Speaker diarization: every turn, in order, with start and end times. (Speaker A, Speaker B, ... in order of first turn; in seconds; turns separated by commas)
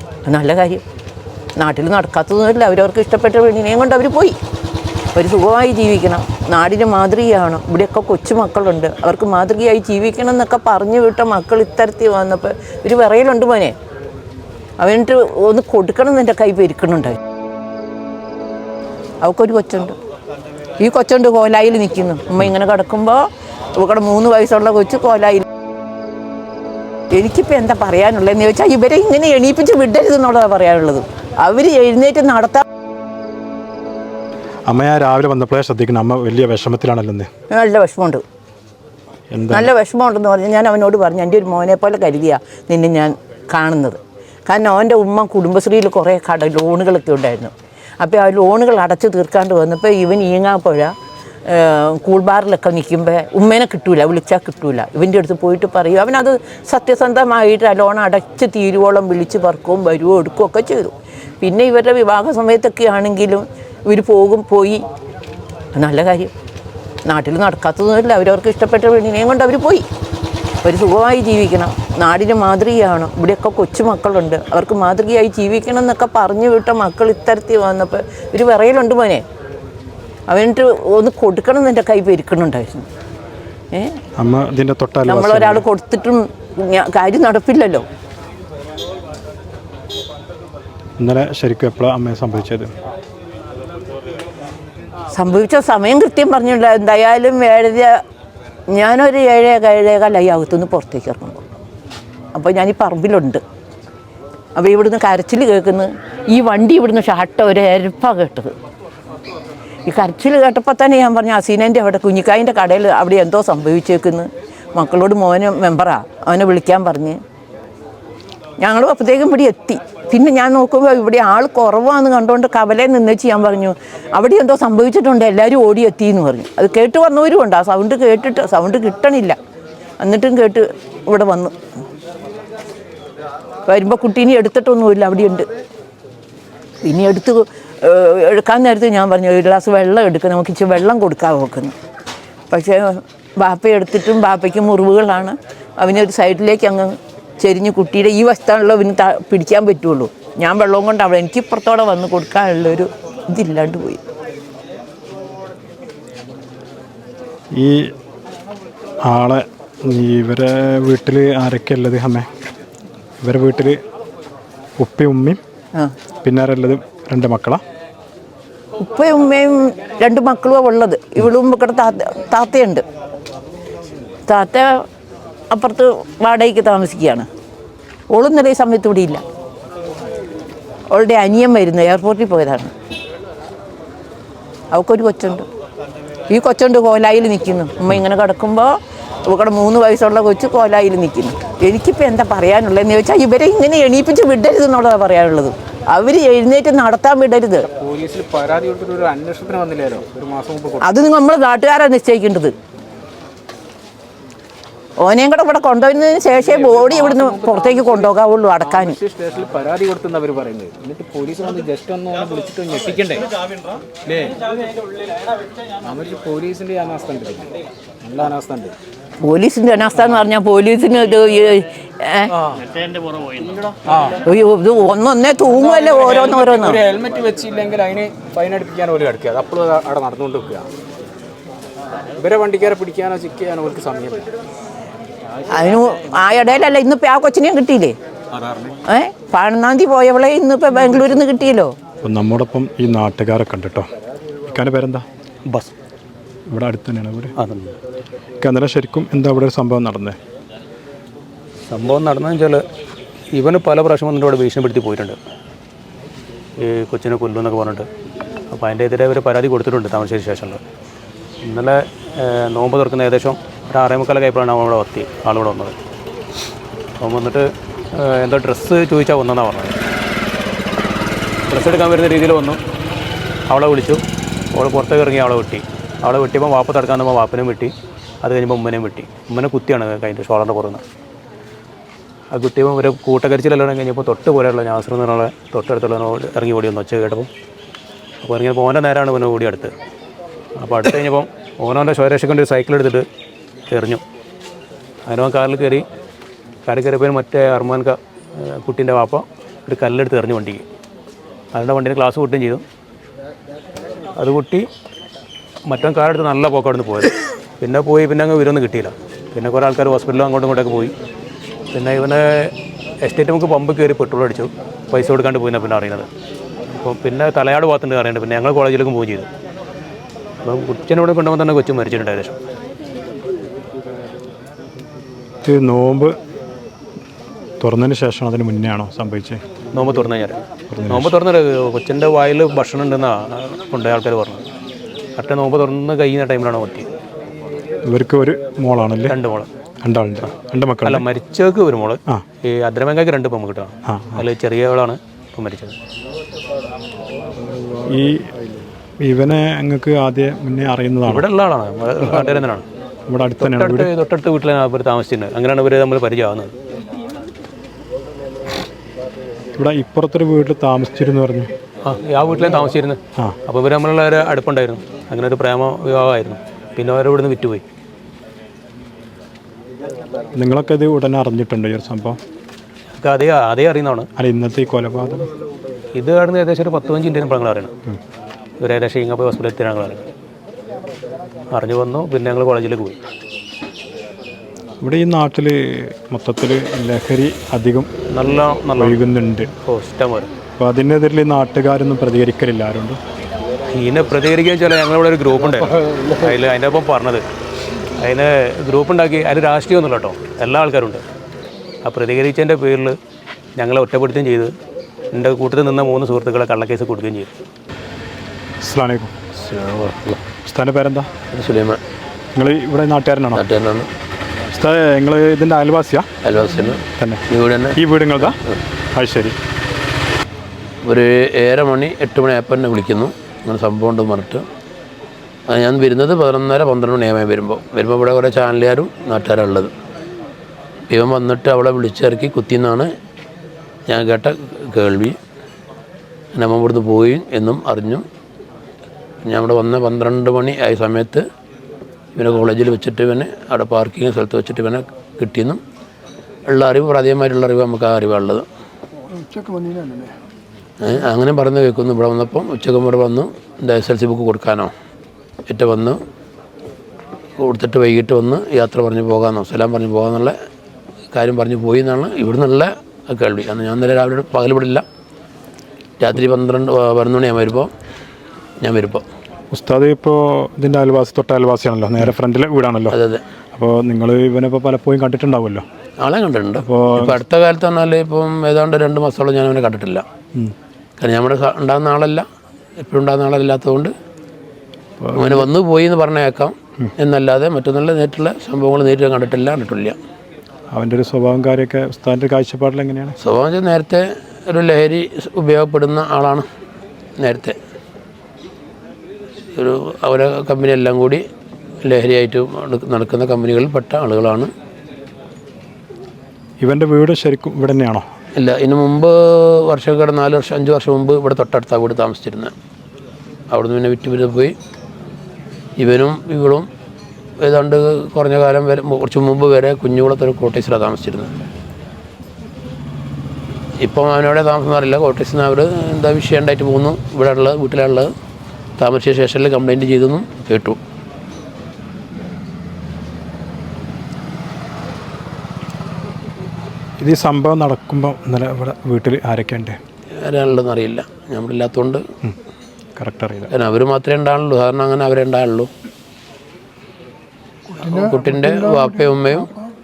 Speaker A: 0.3-0.8, Speaker A: 1.6-4.4, Speaker A: 5.2-13.8, Speaker A: 14.8-17.2, Speaker A: 19.2-20.0, Speaker A: 20.8-23.2, Speaker A: 23.8-25.4, Speaker A: 27.1-32.6, Speaker B: 34.7-37.3, Speaker A: 37.5-38.2, Speaker B: 39.3-39.7, Speaker A: 39.5-50.9, Speaker A: 51.5-64.8, Speaker A: 65.7-66.3, Speaker A: 67.0-69.8, Speaker A: 70.6-79.2, Speaker A: 80.3-82.9, Speaker B: 84.2-85.6, Speaker A: 85.1-87.8, Speaker B: 91.0-92.7, Speaker A: 95.1-98.0, Speaker A: 98.7-101.4, Speaker A: 102.3-103.4, Speaker A: 104.6-108.5, Speaker A: 109.9-117.2, Speaker A: 118.6-129.4, Speaker A: 130.0-131.5, Speaker A: 133.7-135.5, Speaker A: 136.8-141.7, Speaker A: 142.5-154.0, Speaker B: 157.5-157.9, Speaker B: 159.1-162.3, Speaker B: 163.2-163.8, Speaker B: 164.8-165.4, Speaker B: 166.2-167.6, Speaker A: 168.8-172.8, Speaker A: 174.3-174.9, Speaker A: 175.5-177.3, Speaker A: 178.1-179.2, Speaker A: 180.9-182.7, Speaker A: 184.7-185.5, Speaker A: 186.3-188.8, Speaker A: 189.3-197.7, Speaker C: 197.6-200.9, Speaker A: 200.8-202.6, Speaker A: 205.0-209.0, Speaker C: 206.3-208.1, Speaker C: 208.6-214.6, Speaker C: 215.8-218.8, Speaker A: 219.2-222.4, Speaker C: 223.3-224.2, Speaker A: 224.2-226.8, Speaker C: 225.5-230.7, Speaker C: 232.2-234.3, Speaker A: 235.5-238.0, Speaker C: 238.3-238.8, Speaker A: 238.9-241.7, Speaker B: 242.0-243.9, Speaker B: 244.5-245.1, Speaker B: 246.5-247.3, Speaker D: 247.4-247.8, Speaker B: 248.4-250.2, Speaker D: 251.7-252.6, Speaker D: 253.3-255.2, Speaker D: 256.6-257.9, Speaker D: 258.5-260.6, Speaker D: 261.4-265.8, Speaker D: 267.0-269.8, Speaker D: 271.5-272.6, Speaker D: 273.5-274.0, Speaker D: 274.6-280.8, Speaker D: 282.3-287.3, Speaker D: 288.2-289.7, Speaker D: 290.6-293.1, Speaker D: 293.7-294.0, Speaker D: 295.1-295.8, Speaker D: 296.7-300.6, Speaker D: 301.5-302.6, Speaker D: 304.2-304.7, Speaker D: 305.7-310.9, Speaker D: 311.7-316.1, Speaker D: 316.7-319.3, Speaker D: 320.4-322.4, Speaker B: 325.4-326.1, Speaker B: 327.6-329.4, Speaker D: 329.7-334.4, Speaker B: 330.7-331.1, Speaker D: 335.2-336.9, Speaker B: 337.9-339.2, Speaker D: 339.1-339.5, Speaker B: 339.8-341.1, Speaker D: 340.9-345.8, Speaker B: 343.9-344.2, Speaker B: 347.6-348.3, Speaker B: 349.0-351.3, Speaker D: 351.1-352.6, Speaker B: 353.1-353.9, Speaker D: 353.4-356.5, Speaker B: 359.6-361.5, Speaker D: 361.9-367.6, Speaker B: 370.4-372.2, Speaker D: 373.0-374.1, Speaker B: 374.2-375.3, Speaker D: 375.9-377.7, Speaker D: 378.6-380.1, Speaker D: 381.5-383.0, Speaker B: 384.8-387.9, Speaker D: 388.1-389.0, Speaker B: 388.8-389.5, Speaker D: 389.7-390.3, Speaker B: 390.6-393.0, Speaker D: 393.8-397.2, Speaker D: 398.0-401.0, Speaker D: 401.9-403.0, Speaker D: 403.6-404.5, Speaker D: 405.1-407.3, Speaker B: 408.6-409.1, Speaker E: 409.4-410.2, Speaker B: 410.4-411.1, Speaker E: 411.3-411.8, Speaker B: 412.4-413.5, Speaker E: 413.4-413.9, Speaker B: 414.5-416.1, Speaker E: 416.2-417.8, Speaker B: 416.9-417.2, Speaker B: 417.8-418.4, Speaker E: 418.3-418.6, Speaker B: 419.0-419.4, Speaker E: 420.8-424.4, Speaker E: 425.5-429.7, Speaker E: 430.9-432.9, Speaker E: 433.9-435.2, Speaker E: 436.3-438.0, Speaker E: 439.2-441.2, Speaker E: 442.2-445.6, Speaker E: 446.5-448.5, Speaker E: 450.8-454.7, Speaker E: 455.5-456.0, Speaker E: 457.4-460.4, Speaker E: 461.1-464.8, Speaker E: 466.0-467.7, Speaker E: 468.6-469.1, Speaker B: 469.5-473.0, Speaker E: 472.9-473.2, Speaker B: 473.6-475.6, Speaker E: 476.0-480.1, Speaker B: 476.6-477.2, Speaker E: 481.0-482.2, Speaker E: 482.8-483.9, Speaker B: 485.0-485.5, Speaker E: 485.1-490.0, Speaker B: 490.7-493.2, Speaker E: 493.2-496.4, Speaker E: 497.2-497.6, Speaker E: 499.6-501.2, Speaker E: 501.8-504.5, Speaker B: 506.6-508.1, Speaker E: 508.4-512.5, Speaker E: 513.5-514.5, Speaker E: 515.8-516.7, Speaker E: 517.4-521.3, Speaker E: 523.8-528.1, Speaker E: 528.8-530.8, Speaker B: 537.0-539.8, Speaker E: 540.2-542.0, Speaker B: 543.0-543.5, Speaker E: 543.5-545.7, Speaker E: 547.8-549.5